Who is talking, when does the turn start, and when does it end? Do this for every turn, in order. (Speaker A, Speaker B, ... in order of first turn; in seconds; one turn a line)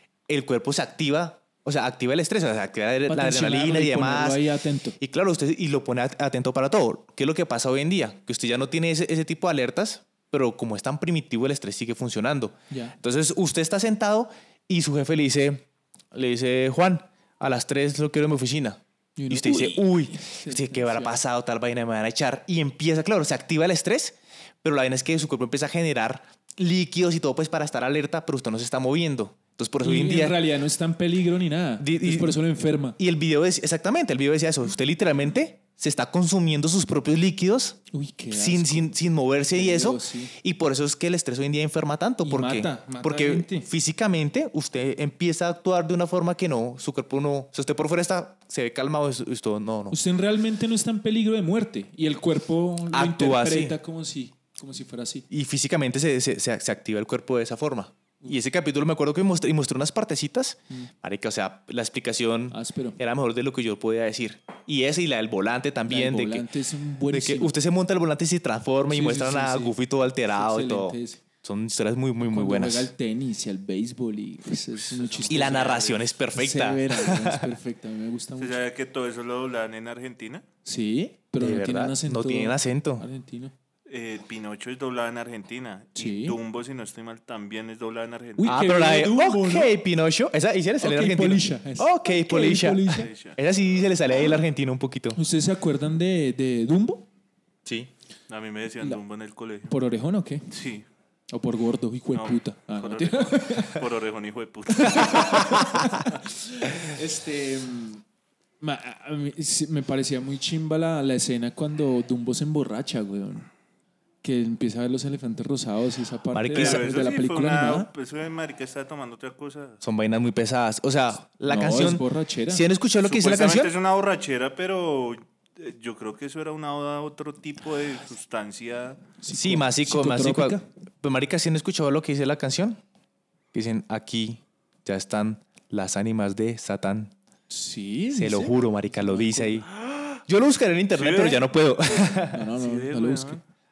Speaker A: 0.3-4.4
Speaker B: 3.1-5.0
Speaker A: 5.0-30.4
Speaker B: 12.7-12.9
Speaker B: 19.2-21.2
Speaker B: 29.8-33.0
Speaker A: 31.8-32.4
Speaker A: 33.0-37.8
Speaker B: 37.9-38.9
Speaker A: 38.3-50.0
Speaker B: 39.5-40.3
Speaker B: 42.2-43.7
Speaker B: 49.9-55.2
Speaker A: 52.9-53.8
Speaker A: 55.3-66.5
Speaker B: 62.5-63.0
Speaker B: 65.8-67.5
Speaker A: 67.1-72.9
Speaker B: 68.8-69.8
Speaker B: 70.3-71.2
Speaker B: 72.2-78.6
Speaker C: 74.9-76.1
Speaker A: 75.2-77.4
Speaker C: 78.4-80.4
Speaker B: 80.6-83.5
Speaker A: 81.4-83.0
Speaker C: 83.9-88.5
Speaker B: 86.0-86.4
Speaker B: 88.4-89.7
Speaker A: 88.4-95.2
Speaker B: 90.8-93.1
Speaker C: 92.9-93.4
Speaker B: 95.1-97.0
Speaker A: 97.6-97.9
Speaker C: 98.3-99.7
Speaker B: 99.7-100.4
Speaker C: 100.5-100.8
Speaker B: 101.3-103.8
Speaker C: 102.1-105.3
Speaker B: 104.7-108.0
Speaker A: 105.3-105.6
Speaker B: 108.6-113.5
Speaker B: 114.2-117.9
Speaker A: 116.3-116.8
Speaker C: 116.5-119.8
Speaker A: 119.8-123.7
Speaker B: 121.4-122.6
Speaker C: 123.0-129.0
Speaker B: 129.2-130.6
Speaker A: 129.3-132.8
Speaker A: 133.5-137.1
Speaker B: 137.5-139.7
Speaker A: 138.2-139.7
Speaker C: 139.7-140.2
Speaker A: 140.3-142.5
Speaker C: 140.9-141.5
Speaker B: 142.3-143.4
Speaker C: 142.6-143.4